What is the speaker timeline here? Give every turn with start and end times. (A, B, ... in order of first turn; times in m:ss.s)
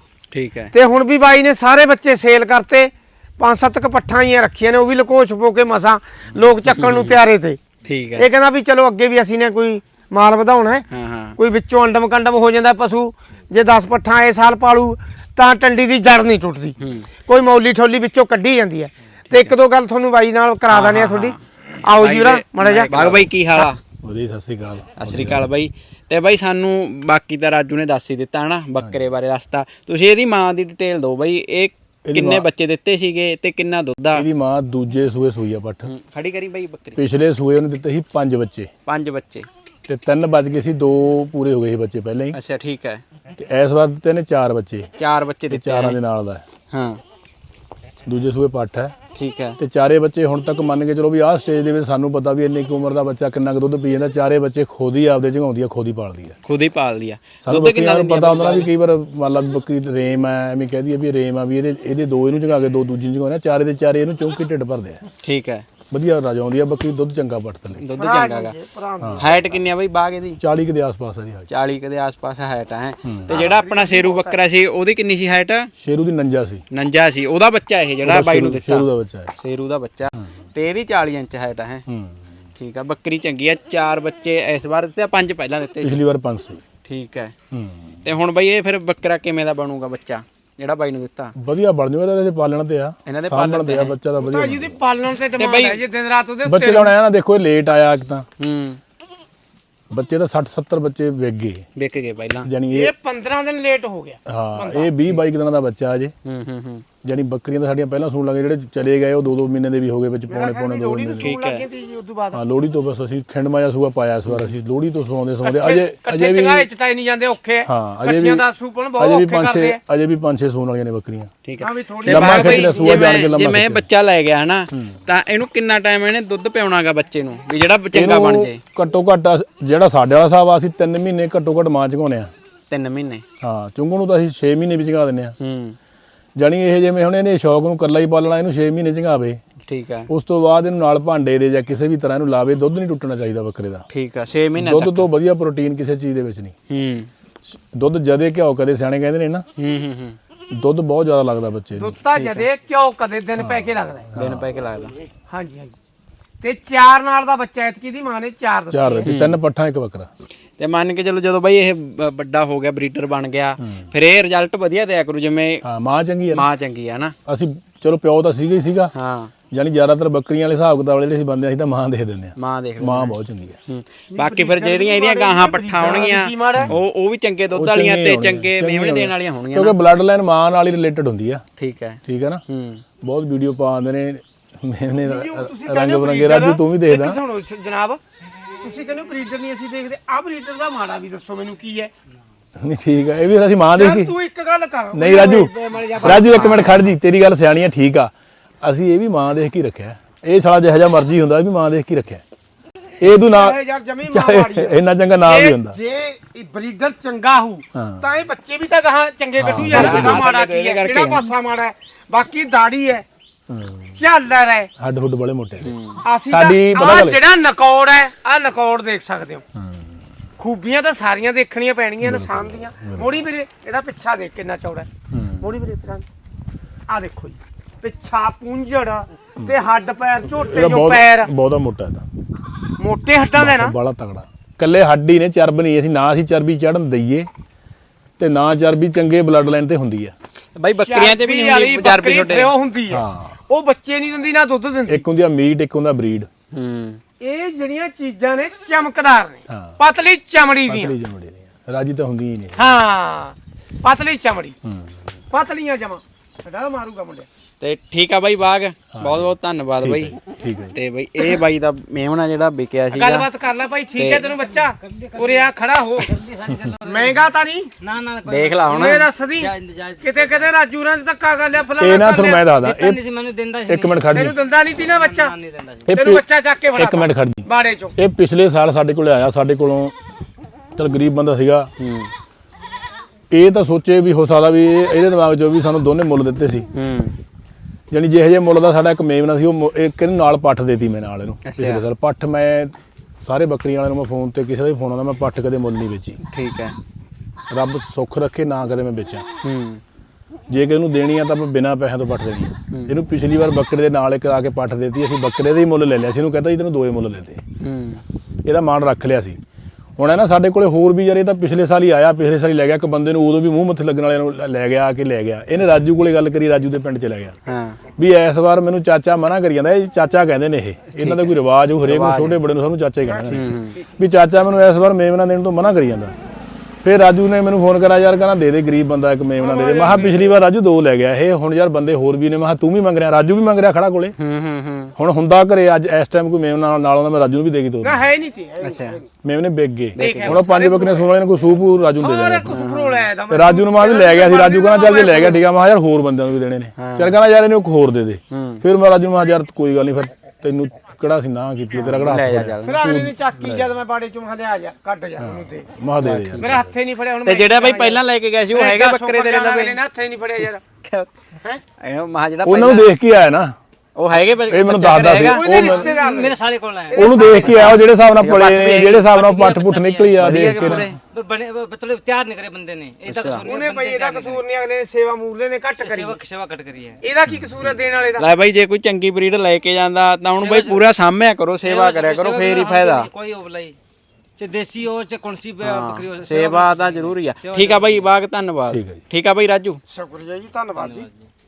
0:00.3-0:00.7 A
0:00.7-0:07.6 B
0:06.7-0:07.2 A
0:07.9-0:08.3 A
0:08.2-0:10.8 B
0:10.9-0:11.4 A
0:11.4-0:16.8 B
0:16.8-0:17.1 A
0:17.2-0:23.7 B
0:20.7-0:21.4 A
0:22.0-0:23.8 A
0:24.0-0:25.4 C
0:25.0-0:34.2 A
0:32.1-0:32.5 C
0:34.1-0:35.9 C
0:35.9-0:37.0 A
0:37.0-0:38.7 C
0:38.9-0:39.5 A
0:39.9-0:42.4 C
0:42.3-0:43.0 A
0:43.4-0:44.9 C
0:45.0-0:46.0 A
0:45.5-0:46.5 C
0:46.7-0:47.0 A
0:48.1-0:48.9 C
0:49.2-0:49.6 A
0:49.6-0:56.4 C
0:56.4-0:58.7 A
0:57.4-1:05.0 C
1:05.2-1:05.7 A
1:05.9-1:07.9 C
1:07.8-1:08.6 A
1:08.0-1:09.3 B
1:09.0-1:09.6 C
1:09.2-1:10.4 A
1:10.4-1:11.5 C
1:11.5-1:15.7 A
1:13.0-1:13.4 C
1:13.3-1:14.4 B
1:15.8-1:16.6 C
1:16.7-1:21.8 A
1:18.0-1:19.3 C
1:21.9-1:22.2 C
1:22.6-1:26.0 A
1:25.8-1:26.6 C
1:26.8-1:27.3 A
1:27.5-1:28.0 C
1:28.0-1:31.3 A
1:31.4-1:34.8 C
1:33.1-1:33.9 A
1:34.2-1:37.0 B
1:35.4-1:35.8 A
1:36.5-1:38.2 C
1:38.4-1:38.8 A
1:39.9-1:41.7 C
1:41.8-1:42.5 A
1:42.4-1:42.9 C
1:42.7-1:44.9 B
1:44.3-1:46.1 C
1:46.2-1:46.8 A
1:47.0-1:51.4 C
1:50.3-1:52.4 B
1:51.2-1:51.6 A
1:52.3-1:56.7 C
1:55.4-1:59.8 B
1:57.7-1:58.4 C
1:59.0-2:01.3 C
2:01.5-2:08.6 A
2:01.6-2:03.1 B
2:02.1-2:03.9 C
2:04.7-2:05.0 C
2:07.9-2:12.3 C
2:12.7-2:13.2 A
2:13.4-2:15.4 C
2:15.4-2:15.8 A
2:16.4-2:19.4 C
2:19.7-2:20.1 A
2:20.1-2:23.9 C
2:23.9-2:25.1 A
2:24.6-2:26.6 C
2:26.7-2:27.1 A
2:27.5-2:29.5 C
2:29.6-2:30.2 A
2:30.5-2:32.0 C
2:31.8-2:34.1 B
2:32.2-2:32.4 A
2:33.4-2:34.5 C
2:34.2-2:35.0 A
2:35.3-2:35.8 B
2:36.4-2:39.1 B
2:38.7-2:40.1 C
2:39.1-2:39.4 A
2:40.6-2:45.6 A
2:43.6-2:43.9 C
2:45.6-2:46.5 C
2:46.3-2:47.2 A
2:47.2-2:48.9 C
2:48.9-2:49.3 A
2:49.5-2:53.6 C
2:52.4-2:53.1 A
2:53.7-2:59.8 A
2:54.1-2:56.7 B
2:57.5-3:01.4 C
3:01.6-3:02.8 A
3:02.0-3:02.4 C
3:03.0-3:07.2 C
3:05.0-3:08.0 B
3:08.6-3:11.9 B
3:12.6-3:14.1 C
3:13.7-3:16.6 B
3:14.9-3:22.2 C
3:16.0-3:16.9 A
3:23.0-3:23.6 C
3:23.3-3:33.0 B
3:24.1-3:25.8 C
3:27.7-3:28.0 C
3:29.4-3:30.2 C
3:29.6-3:31.3 A
3:33.5-3:34.0 C
3:34.0-3:34.7 B
3:34.8-3:35.7 C
3:35.6-3:36.0 A
3:36.0-3:39.4 B
3:36.2-3:37.2 C
3:39.6-3:39.9 C
3:40.4-3:44.9 B
3:42.0-3:43.1 C
3:45.1-3:45.5 C
3:45.4-3:46.0 B
3:46.9-3:51.3 B
3:50.4-3:52.1 C
3:52.8-3:53.8 B
3:53.4-3:57.3 C
3:58.2-4:00.1 C
4:00.6-4:02.5 A
4:00.8-4:05.1 B
4:02.9-4:03.4 C
4:04.9-4:06.3 C
4:06.5-4:07.0 A
4:07.2-4:11.0 B
4:09.5-4:09.8 C
4:10.7-4:12.7 C
4:12.6-4:14.6 B
4:14.6-4:15.0 C
4:15.3-4:17.2 B
4:17.6-4:20.2 A
4:18.9-4:20.8 C
4:20.7-4:23.3 A
4:22.9-4:26.1 B
4:24.0-4:24.2 A
4:24.2-4:27.2 D
4:26.5-4:26.7 C
4:26.8-4:27.7 B
4:27.8-4:30.5 D
4:28.3-4:29.1 A
4:28.7-4:32.4 B
4:31.8-4:33.0 C
4:32.5-4:34.3 D
4:33.7-4:34.4 C
4:34.1-4:35.4 B
4:34.9-4:35.9 D
4:35.9-4:36.2 C
4:35.9-4:38.0 B
4:36.8-4:39.9 C
4:40.8-4:41.7 C
4:41.8-4:42.1 A
4:43.3-4:46.7 C
4:46.7-4:47.2 A
4:47.9-4:56.2 C
4:51.4-4:51.8 A
4:56.3-4:56.8 A
4:57.5-4:59.2 C
4:59.4-4:59.8 A
5:00.5-5:07.4 C
5:07.6-5:08.0 A
5:08.5-5:09.4 C
5:10.0-5:17.4 C
5:17.5-5:17.8 A
5:18.0-5:26.1 C
5:20.9-5:22.4 A
5:23.3-5:23.8 A
5:26.8-5:34.2 C
5:29.4-5:30.3 B
5:34.2-5:34.9 A
5:35.0-5:38.0 C
5:37.8-5:39.0 B
5:38.6-5:39.0 A
5:39.2-5:42.6 C
5:40.0-5:40.4 A
5:40.0-5:41.1 B
5:42.0-5:45.4 B
5:42.5-5:43.1 A
5:43.3-5:53.7 C
5:46.8-5:47.2 A
5:48.3-5:48.6 A
5:51.7-5:52.8 A
5:52.6-5:55.6 B
5:55.2-5:56.7 C
5:56.0-5:56.6 A
5:56.4-6:00.6 B
5:57.2-5:59.8 A
6:00.8-6:01.1 A
6:01.8-6:02.9 A
6:02.4-6:03.6 C
6:04.0-6:05.5 A
6:04.3-6:06.0 C
6:05.2-6:06.4 B
6:05.6-6:07.6 D
6:06.9-6:07.8 B
6:06.9-6:10.9 C
6:07.4-6:09.1 A
6:09.1-6:14.4 D
6:10.2-6:11.0 A
6:13.1-6:13.5 A
6:13.4-6:16.2 B
6:15.8-6:17.0 D
6:17.0-6:18.3 B
6:18.2-6:23.1 A
6:20.3-6:20.8 D
6:21.6-6:23.8 D
6:24.4-6:28.1 D
6:25.6-6:29.8 A
6:28.7-6:29.0 C
6:29.9-6:31.1 B
6:30.8-6:31.3 D